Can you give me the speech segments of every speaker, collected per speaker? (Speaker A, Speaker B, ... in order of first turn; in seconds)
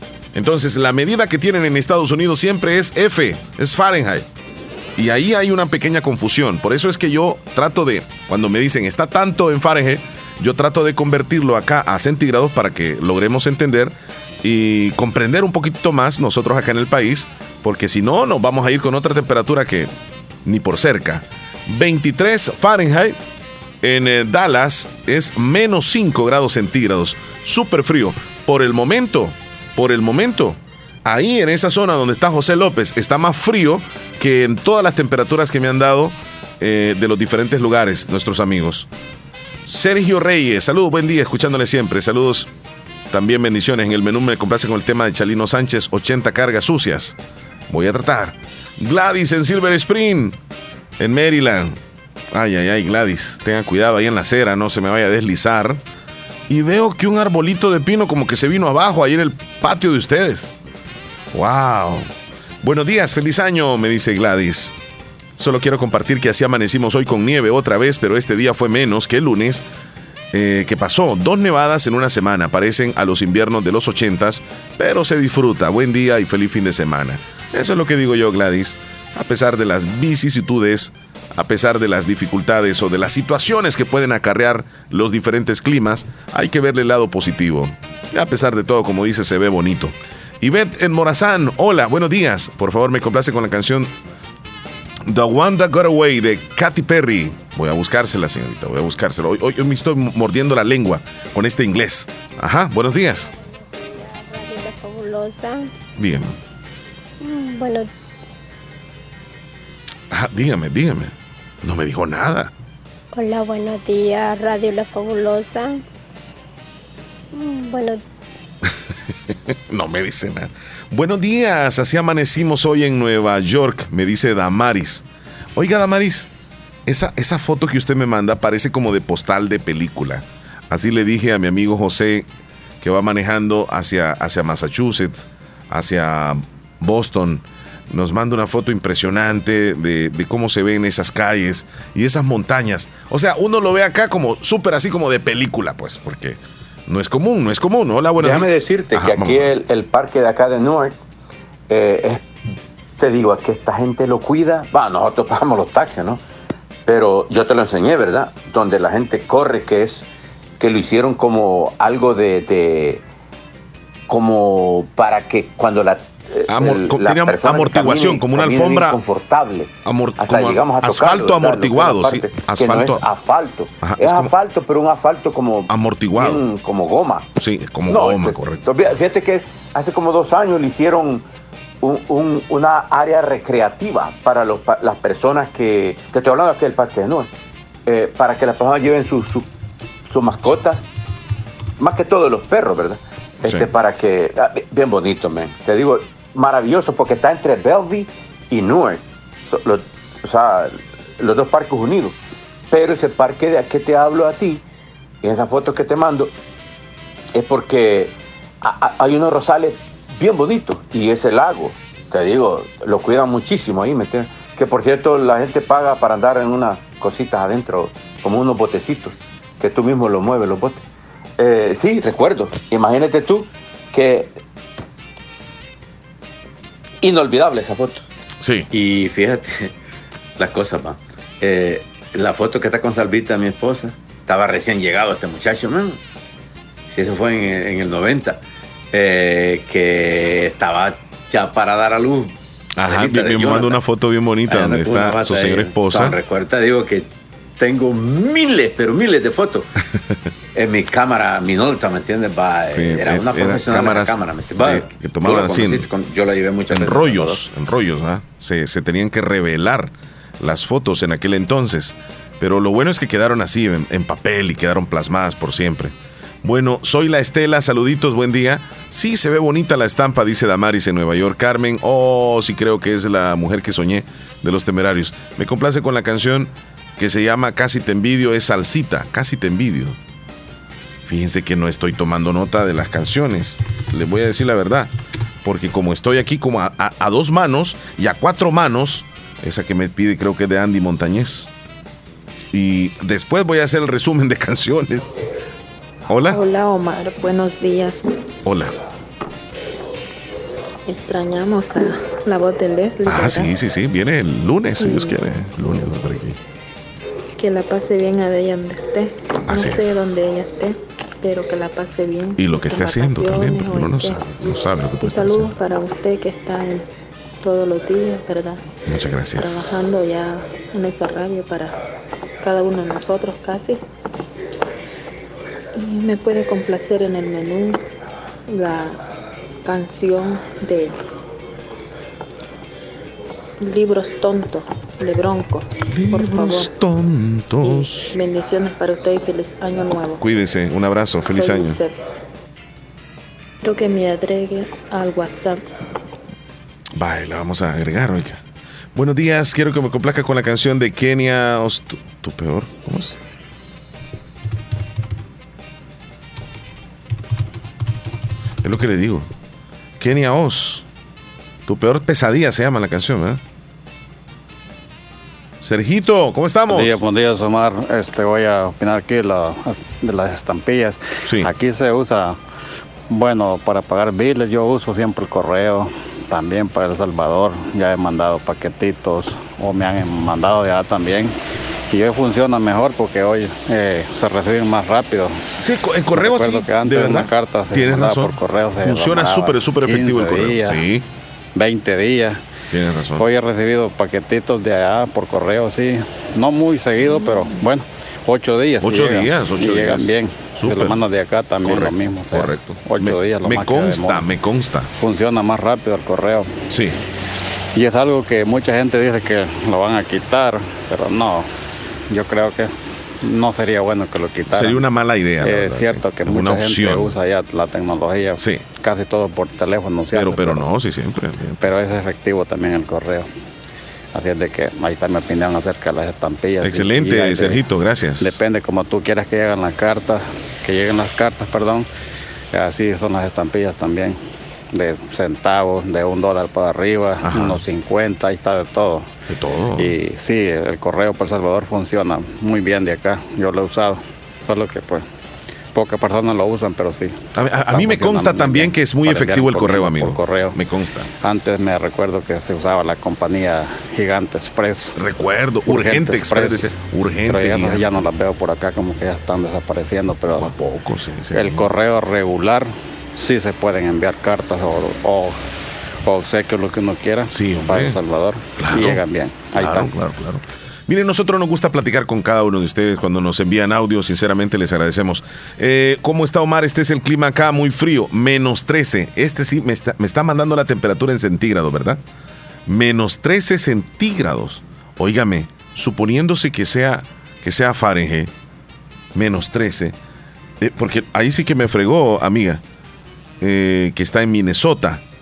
Speaker A: 0.3-4.3, 5.0-19.9, 20.4-23.2, 23.8-38.9, 39.6-42.5, 43.1-47.1, 47.7-50.4, 51.0-51.8, 52.3-55.8, 56.5-60.5, 61.3-62.1, 62.6-64.7, 65.4-69.7, 70.3-93.9, 95.0-103.3, 106.0-106.3, 110.1-112.5, 119.7-125.0, 125.5-126.3, 126.8-132.3, 132.8-149.5, 166.5-169.0, 169.8-173.1, 173.8-174.3, 175.7-176.4, 177.4-178.7, 193.4-193.7, 228.4-228.7, 242.8-246.2, 252.7-255.9, 256.7-280.0, 281.1-284.9, 285.4-291.5, 292.5-295.2, 296.1-296.4, 298.4-298.7, 303.1-306.4, 309.4-310.1, 312.4-315.5, 318.9-319.8, 335.9-338.1, 340.2-341.8, 347.0-348.4, 348.9-353.2, 358.6-359.3, 360.0-360.8, 361.7-363.4, 365.6-367.0, 385.6-391.0, 392.7-393.2, 398.8-401.0, 401.6-404.9, 406.7-407.0, 414.5-417.1, 418.4-418.6, 420.1-421.6, 426.6-428.4, 437.2-437.6, 439.3-439.9, 447.3-451.1, 454.9-457.9, 460.3-461.7, 467.3-468.0, 468.6-469.0, 469.5-482.0, 482.7-488.3, 489.1-489.9, 490.6-492.6, 493.4-495.0
Speaker B: 103.3-105.7, 107.2-107.9, 113.1-115.8, 117.3-118.0
Speaker C: 148.2-150.9, 151.7-152.3, 153.0-156.2, 156.9-160.1, 160.6-163.0, 164.1-177.3, 177.9-181.2, 181.8-187.3, 187.9-189.5, 190.1-190.9, 191.8-202.2, 202.7-204.6, 205.2-206.3, 207.3-220.8, 221.4-224.3, 227.0-228.0, 228.7-229.7, 230.4-236.0, 236.9-238.4, 238.9-242.3, 242.8-243.8, 244.5-249.7, 250.5-257.4
Speaker D: 296.3-298.1, 300.9-303.5, 304.8-305.2, 307.4-314.4, 315.0-316.9, 317.4-318.6, 319.3-321.8, 322.4-323.8, 325.7-327.8, 328.5-329.0, 329.6-331.0, 333.6-336.7, 337.6-340.2, 341.3-342.0, 343.6-345.6
Speaker E: 366.7-372.4, 373.1-381.3, 381.9-385.4, 386.1-390.8, 391.5-392.4, 393.2-404.2, 405.0-406.5, 407.7-411.5, 412.1-414.8, 415.4-420.7, 421.6-423.3, 424.1-427.6, 428.2-431.9, 432.5-434.2, 434.7-439.1, 439.8-445.1, 445.7-450.6, 451.2-454.9, 455.7-456.8, 457.3-460.5, 461.3-465.4, 466.0-469.9